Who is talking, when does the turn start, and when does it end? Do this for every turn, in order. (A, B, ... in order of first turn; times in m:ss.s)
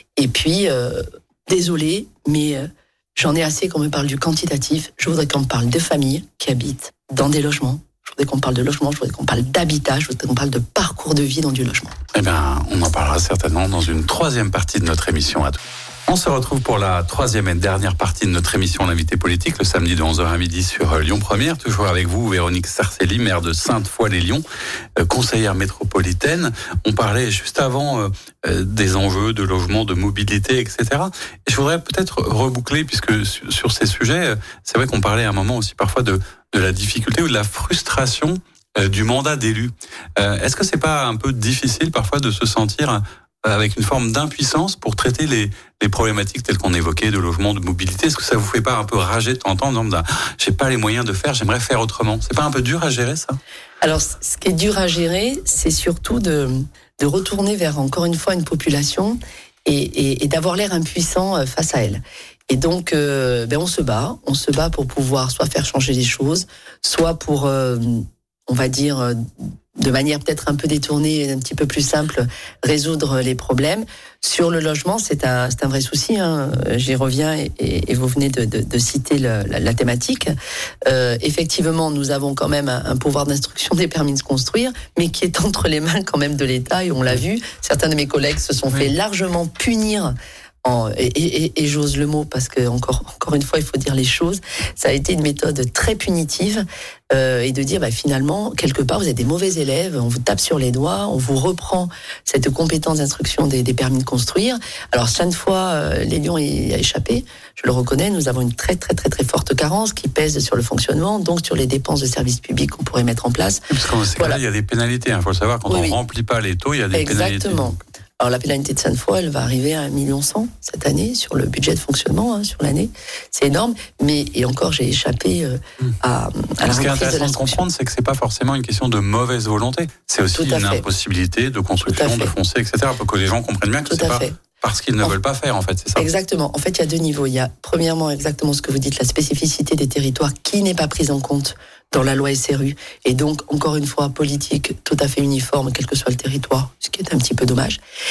0:00.2-0:12.0 A
0:12.1-0:24.4 B
0:25.0-0:53.4 B
0:53.8-1:20.3 A
1:20.8-1:54.4 A
1:53.7-1:57.8 B
1:55.7-1:56.0 A
1:56.9-2:07.6 A
2:06.7-2:16.1 B
2:10.4-2:10.9 A
2:11.8-2:12.3 A
2:13.9-2:14.4 A
2:16.0-2:27.8 A